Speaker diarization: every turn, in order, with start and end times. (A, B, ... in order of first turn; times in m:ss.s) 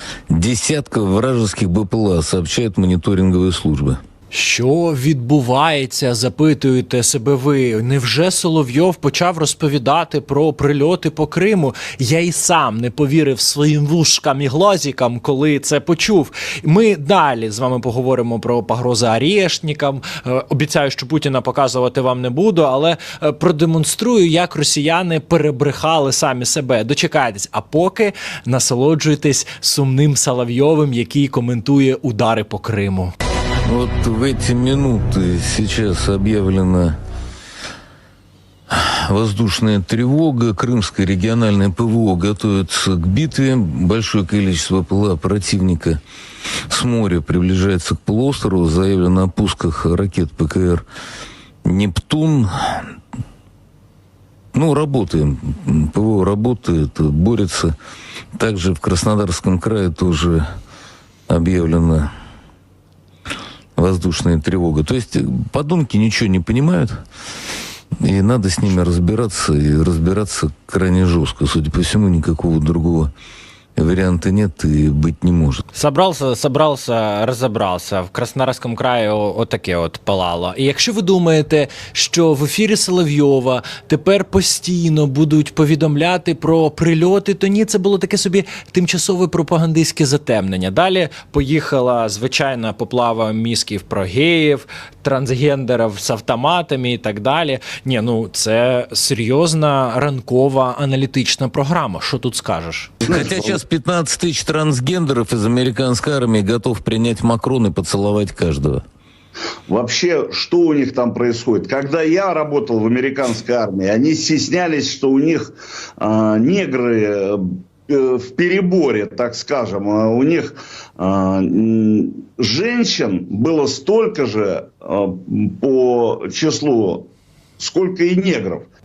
0:00.3-0:04.0 A
0:04.3-0:33.1 B
0:33.7-0:36.9 A
0:38.7-0:46.0 A
0:46.7-0:50.8 A
0:51.6-0:52.5 A
0:54.5-0:57.7 A
0:58.4-1:00.4 A
1:01.3-1:02.0 A
1:03.8-1:07.0 A
1:08.0-1:13.1 A
1:13.8-1:15.6 A
1:15.7-1:42.9 B
1:43.1-1:43.6 C
1:43.1-1:48.8 A
1:49.7-1:57.4 C
1:57.9-2:07.1 C
2:07.6-2:08.7 C